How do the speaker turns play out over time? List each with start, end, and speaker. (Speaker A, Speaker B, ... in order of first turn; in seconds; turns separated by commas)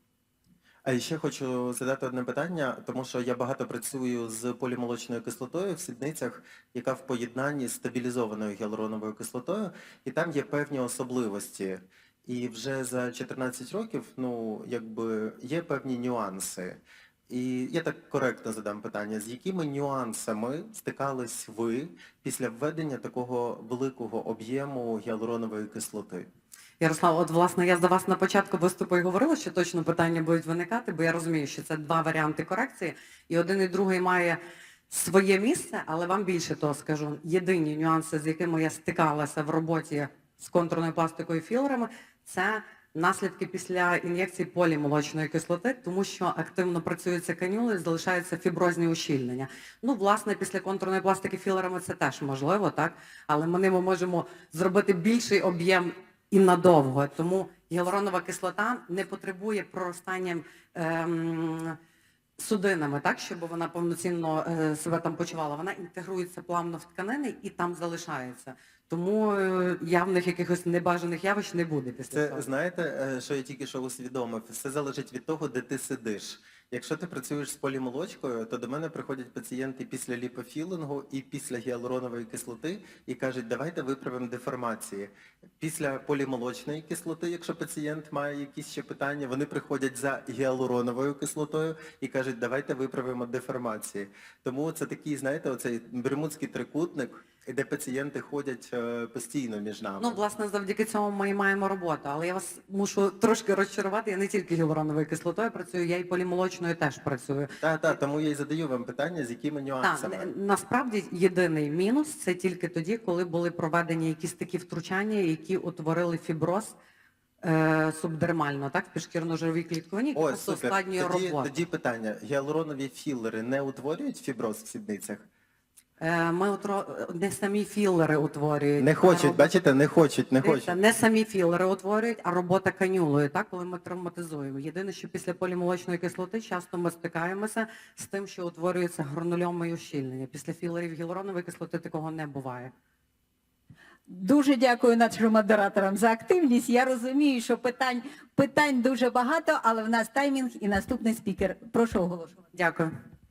Speaker A: 0.8-26.3, Speaker B: 26.8-34.4, Speaker B: 34.9-61.8, Speaker B: 62.4-72.5, Speaker A: 72.1-100.2, Speaker B: 100.0-107.5, Speaker A: 107.6-110.3, Speaker B: 109.8-116.8, Speaker B: 117.4-121.5, Speaker A: 120.1-125.3, Speaker B: 126.0-129.5, Speaker A: 128.8-130.7, Speaker B: 130.4-142.7, Speaker C: 144.1-152.4, Speaker B: 152.5-152.9